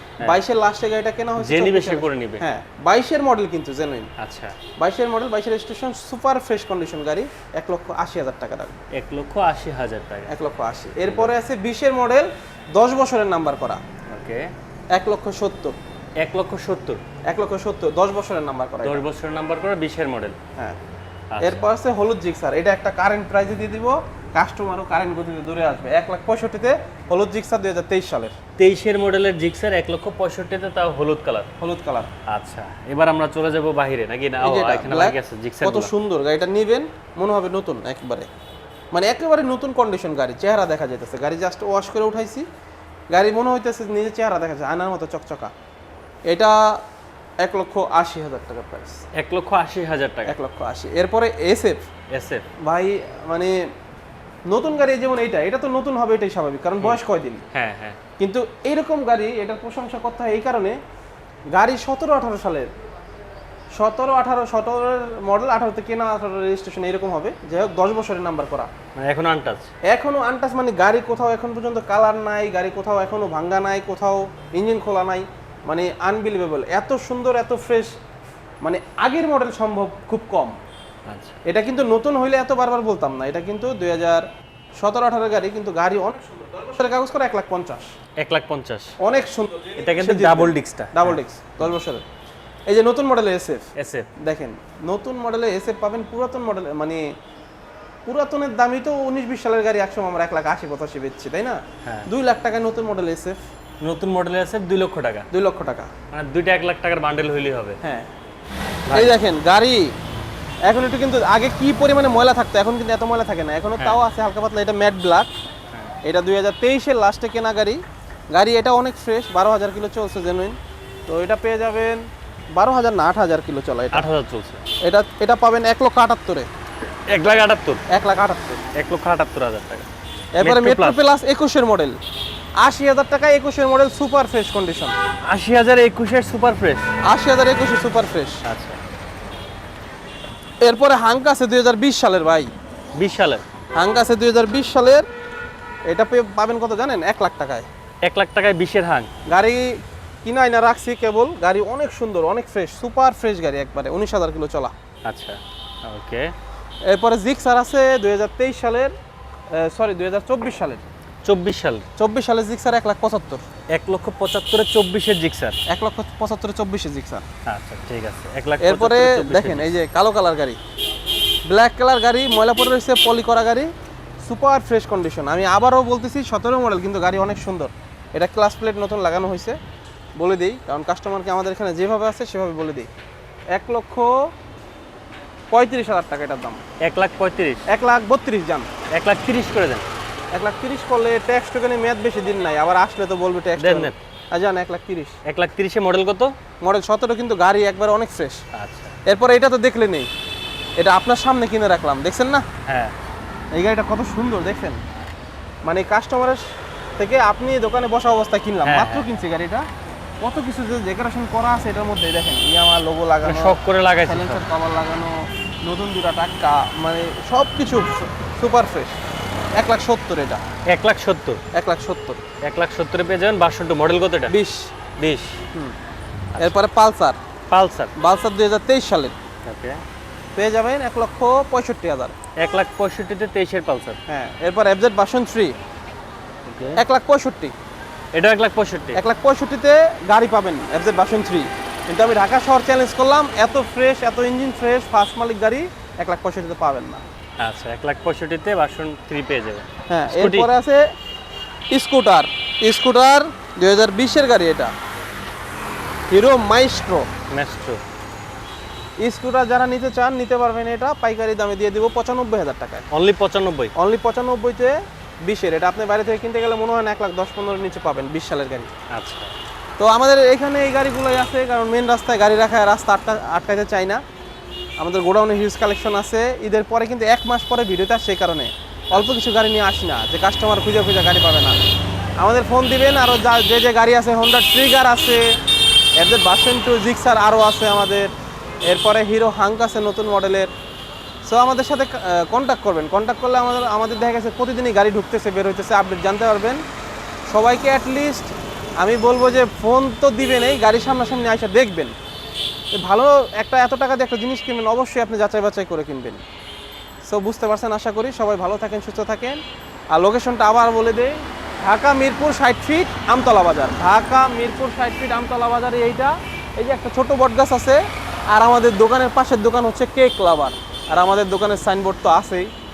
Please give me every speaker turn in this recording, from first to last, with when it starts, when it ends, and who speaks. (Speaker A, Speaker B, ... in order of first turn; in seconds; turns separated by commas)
Speaker A: 0.2-4.1, Speaker B: 1.4-2.5, Speaker B: 4.2-4.6, Speaker A: 4.8-8.8, Speaker B: 8.9-10.3, Speaker A: 10.3-13.8, Speaker B: 11.1-11.3, Speaker B: 14.1-14.5, Speaker A: 14.9-15.8, Speaker B: 16.2-17.0, Speaker A: 17.3-19.0, Speaker B: 18.8-20.4, Speaker B: 21.3-21.6, Speaker A: 21.4-28.4, Speaker B: 28.6-31.5, Speaker A: 31.6-32.1, Speaker B: 32.3-35.9, Speaker A: 34.4-38.3, Speaker A: 38.9-42.4, Speaker A: 43.1-45.5, Speaker A: 46.3-46.8, Speaker A: 47.4-49.0, Speaker B: 49.1-50.4, Speaker A: 50.2-51.9, Speaker B: 52.1-52.4, Speaker A: 52.6-53.6, Speaker A: 54.5-57.4, Speaker B: 57.5-58.0, Speaker A: 58.2-60.8, Speaker A: 61.5-62.7, Speaker A: 63.8-68.7, Speaker B: 69.0-69.7, Speaker A: 69.9-77.9, Speaker A: 78.6-80.6, Speaker B: 81.1-81.4, Speaker A: 81.4-84.2, Speaker A: 84.8-87.9, Speaker B: 88.2-89.0, Speaker A: 89.0-92.0, Speaker B: 89.8-91.2, Speaker A: 92.7-93.7, Speaker B: 93.8-94.1, Speaker A: 94.2-97.0, Speaker A: 98.0-103.4, Speaker B: 103.8-105.3, Speaker A: 105.3-105.9, Speaker B: 106.1-107.8, Speaker A: 107.8-108.1, Speaker B: 108.8-109.2, Speaker A: 108.9-109.9, Speaker A: 110.6-115.3, Speaker A: 116.0-117.8, Speaker A: 118.3-124.0, Speaker B: 123.9-124.7, Speaker A: 124.8-126.5, Speaker B: 126.8-127.8, Speaker A: 127.9-128.6, Speaker B: 128.7-129.9, Speaker A: 130.3-132.0, Speaker B: 130.4-131.0, Speaker A: 132.6-134.9, Speaker B: 135.3-136.9, Speaker A: 137.1-138.4, Speaker B: 138.4-138.8, Speaker A: 140.6-142.5, Speaker B: 142.9-143.4, Speaker A: 143.8-145.0, Speaker A: 145.8-147.7, Speaker B: 148.0-149.1, Speaker A: 149.3-154.7, Speaker B: 155.1-156.3, Speaker A: 156.9-158.9, Speaker A: 159.5-160.8, Speaker B: 161.2-161.8, Speaker A: 162.0-163.4, Speaker B: 163.7-165.6, Speaker A: 165.7-167.2, Speaker B: 167.4-169.7, Speaker A: 168.6-170.6, Speaker A: 171.5-173.7, Speaker A: 174.2-179.6, Speaker A: 180.2-182.9, Speaker A: 183.5-184.3, Speaker A: 185.5-186.6, Speaker B: 186.8-187.7, Speaker A: 187.7-188.7, Speaker B: 188.9-189.8, Speaker A: 190.3-195.2, Speaker B: 193.6-194.0, Speaker B: 195.2-196.3, Speaker A: 196.6-198.4, Speaker B: 198.6-199.0, Speaker A: 199.1-200.1, Speaker A: 200.8-202.4, Speaker B: 202.6-202.9, Speaker A: 203.5-204.8, Speaker A: 205.6-206.4, Speaker A: 207.0-209.7, Speaker B: 208.6-209.1, Speaker A: 210.2-219.0, Speaker B: 213.2-214.4, Speaker A: 219.6-220.4, Speaker B: 220.7-221.4, Speaker A: 221.5-222.2, Speaker B: 222.4-224.3, Speaker A: 224.3-224.7, Speaker B: 225.0-225.4, Speaker B: 226.3-226.6, Speaker A: 226.4-227.2, Speaker B: 227.5-227.9, Speaker A: 228.0-229.1, Speaker B: 229.4-229.8, Speaker A: 230.3-232.1, Speaker B: 232.4-234.0, Speaker A: 234.1-235.6, Speaker B: 236.4-236.8, Speaker A: 236.8-237.5, Speaker B: 238.1-239.0, Speaker A: 238.9-247.0, Speaker B: 247.4-250.5, Speaker A: 249.9-250.8, Speaker A: 251.7-254.7, Speaker A: 256.1-257.1, Speaker B: 257.3-257.8, Speaker A: 259.0-262.9, Speaker B: 262.9-263.7, Speaker A: 263.8-268.7, Speaker B: 268.9-269.3, Speaker A: 269.8-274.0, Speaker A: 274.8-281.6, Speaker A: 282.2-285.3, Speaker A: 286.0-288.1, Speaker A: 288.6-290.5, Speaker A: 291.2-296.6, Speaker A: 297.3-301.9, Speaker A: 302.7-306.2, Speaker A: 307.0-309.4, Speaker A: 309.9-317.8, Speaker A: 318.3-322.5